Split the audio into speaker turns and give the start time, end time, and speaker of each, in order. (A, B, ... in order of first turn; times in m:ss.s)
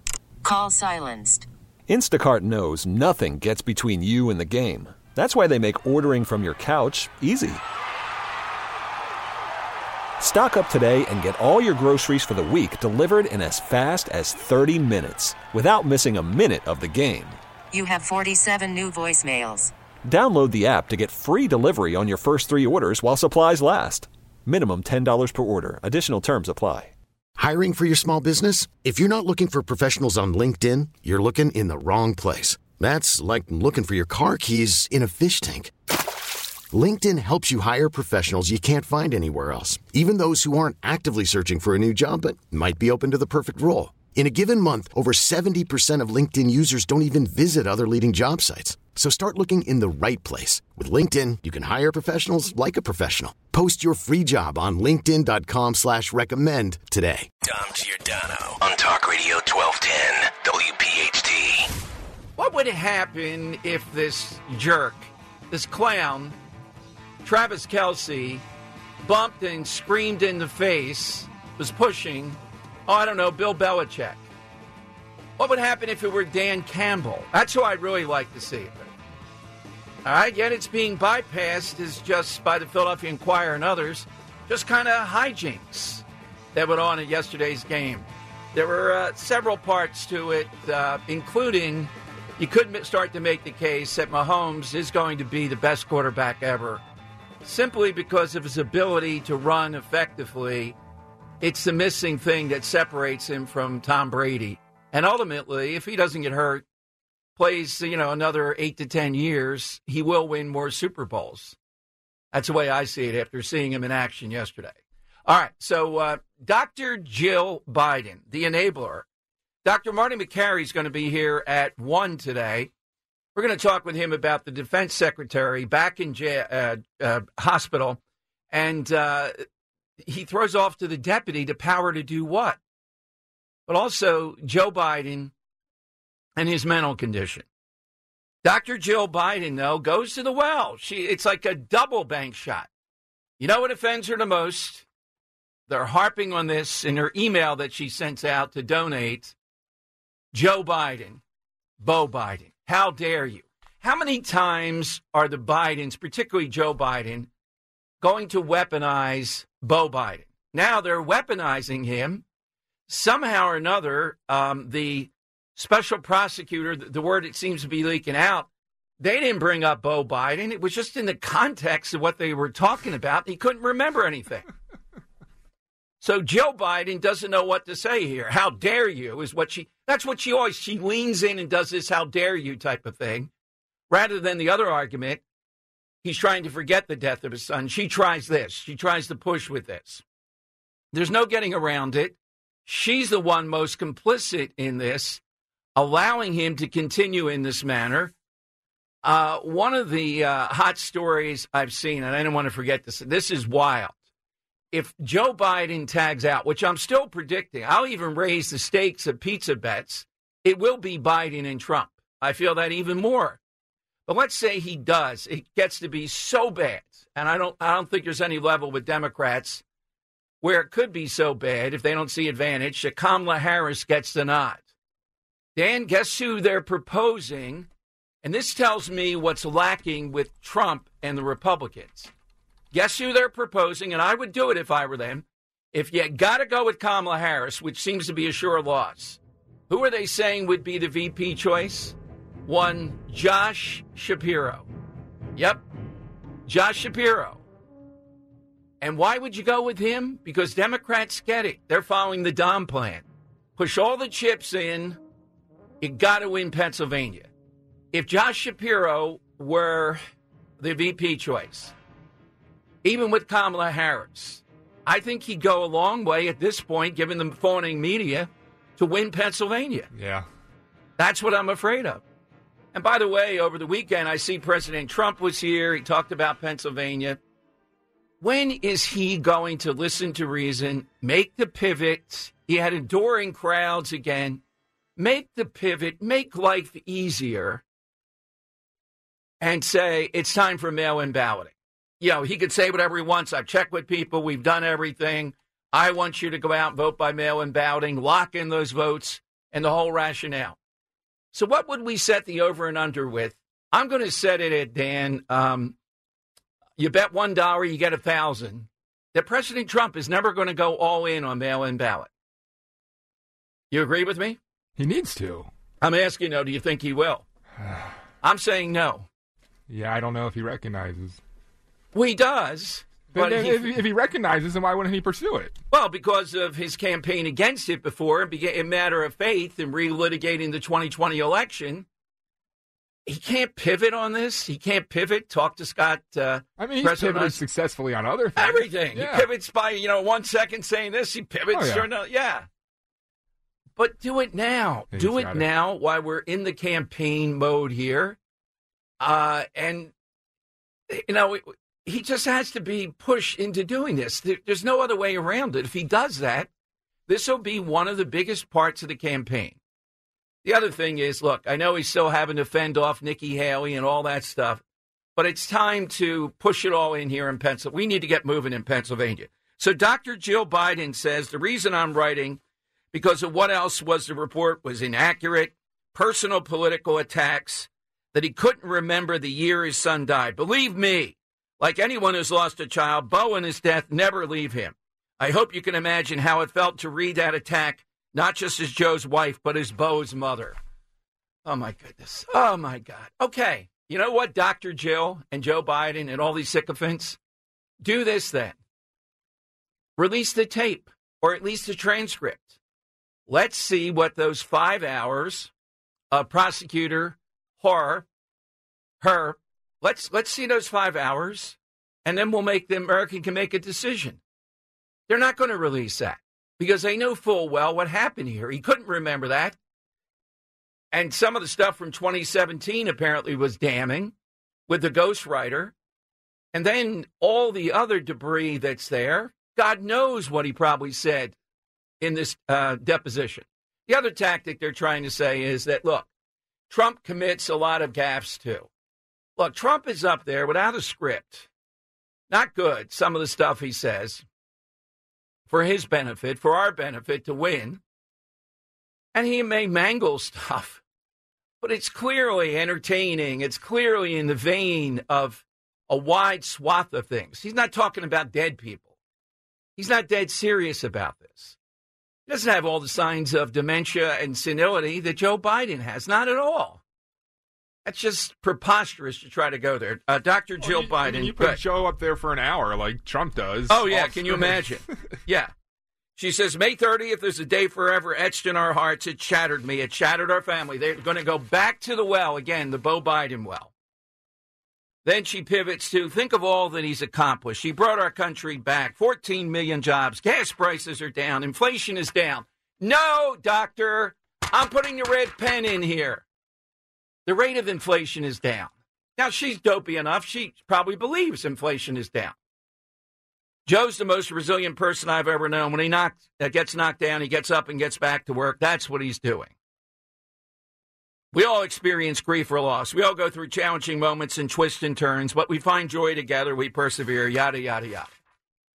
0:00.4-0:01.5 A
0:01.9-0:07.6 B
0:10.2-0:17.4 B
0:17.7-0:19.7 A
0:20.0-0:26.9 B
0:27.4-0:35.7 C
0:36.7-0:57.3 C
0:57.4-1:01.7 D
1:02.4-1:06.4 E
1:07.2-1:08.4 E
1:09.0-1:14.2 E
1:15.4-1:18.9 E
1:20.0-1:36.8 E
1:37.4-1:40.8 E
1:41.4-1:46.7 E
1:47.4-1:51.6 E
1:52.3-1:59.1 E
1:59.6-2:02.7 E
2:03.4-2:08.0 E
2:08.5-2:09.4 E
2:10.0-2:12.6 E
2:13.7-2:15.3 E
2:16.4-2:17.5 E
2:18.4-2:22.7 E
2:23.4-2:24.9 E
2:25.7-2:29.4 E
2:30.3-2:31.2 E
2:31.8-2:37.3 E
2:38.0-2:42.2 E
2:42.9-2:48.5 E
2:49.0-2:54.5 E
2:56.0-3:03.3 E
3:03.9-3:05.2 E
3:06.0-3:10.0 E
3:10.9-3:15.2 E
3:15.8-3:18.1 E
3:19.0-3:24.0 E
3:24.7-3:33.4 E
3:34.1-3:39.6 E
3:40.4-3:44.6 E
3:45.6-3:47.7 E
3:48.2-3:52.1 E
3:52.7-4:04.7 E
4:05.4-4:05.6 E
4:06.5-4:07.4 E
4:08.8-4:13.0 E
4:13.6-4:15.0 E
4:15.8-4:17.3 E
4:17.9-4:20.0 E
4:20.6-4:21.7 E
4:22.8-4:29.9 E
4:29.9-4:30.3 F
4:31.0-4:32.0 E
4:32.7-4:37.2 E
4:38.2-4:44.4 E
4:45.0-4:47.6 E
4:49.4-5:00.6 E
5:01.3-5:05.8 E
5:06.8-5:12.1 E
5:13.7-5:14.4 E
5:14.8-5:15.5 F
5:15.8-5:17.2 E
5:17.6-5:17.9 F
5:18.2-5:19.1 E
5:19.7-5:21.2 F
5:21.9-5:23.8 E
5:23.1-5:25.6 F
5:25.7-5:31.9 E
5:33.1-5:37.4 E
5:36.6-5:39.3 F
5:38.4-5:42.5 E
5:41.5-5:41.9 F
5:43.8-5:48.2 E
5:44.9-5:45.4 F
5:49.0-5:49.9 E
5:50.9-5:56.5 E
5:57.1-5:59.6 E
6:00.4-6:04.6 E
6:05.2-6:12.4 E
6:12.9-6:30.6 E
6:31.4-6:37.2 E
6:37.8-6:38.6 E
6:40.0-6:42.6 E
6:43.3-6:45.5 E
6:46.1-6:48.1 E
6:49.0-6:54.2 E
6:55.1-6:59.6 E
7:00.9-7:04.1 E
7:04.7-7:05.7 E
7:06.5-7:11.4 E
7:12.0-7:16.1 E
7:16.7-7:18.7 E
7:19.4-7:21.5 E
7:22.3-7:24.2 E
7:25.5-7:27.8 E
7:29.1-7:30.8 E
7:31.6-7:38.9 E
7:39.8-7:41.6 E
7:42.3-7:46.8 E
7:47.8-7:51.6 E
7:50.6-7:54.9 F
7:53.7-7:55.5 E
7:56.2-8:03.7 E
8:05.0-8:16.2 E
8:17.3-8:22.4 E
8:23.7-8:29.5 E
8:31.3-8:38.1 E